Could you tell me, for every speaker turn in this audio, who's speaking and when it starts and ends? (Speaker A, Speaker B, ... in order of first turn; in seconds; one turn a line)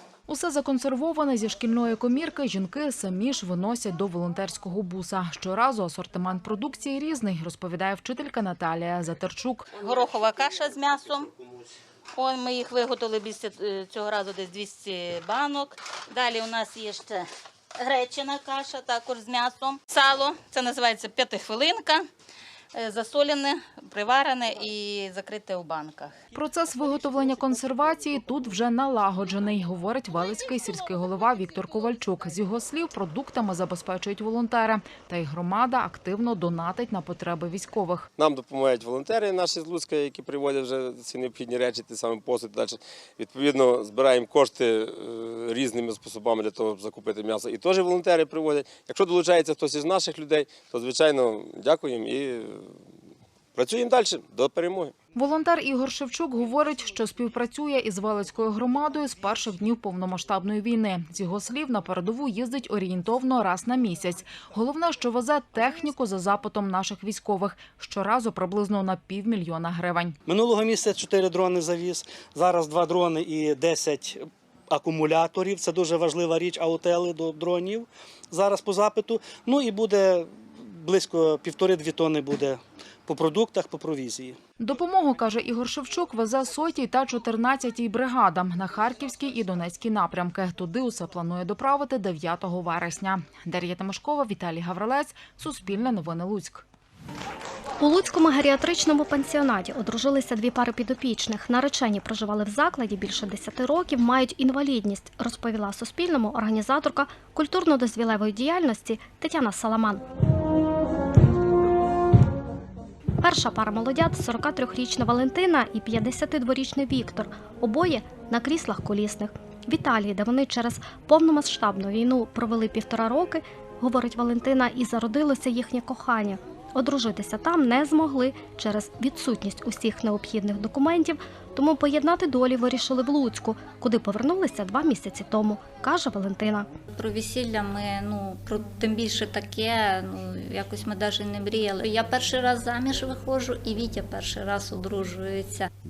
Speaker A: 0.3-9.7
Speaker B: 9.8-11.3
Speaker B: 12.1-17.2
Speaker B: 17.8-22.1
Speaker B: 22.7-26.1
Speaker A: 26.3-38.1
Speaker C: 38.2-52.7
Speaker C: 53.5-54.9
Speaker A: 55.1-70.2
Speaker D: 70.3-84.4
Speaker A: 84.6-96.6
Speaker E: 97.8-110.0
Speaker E: 113.2-136.7
Speaker F: 137.0-145.7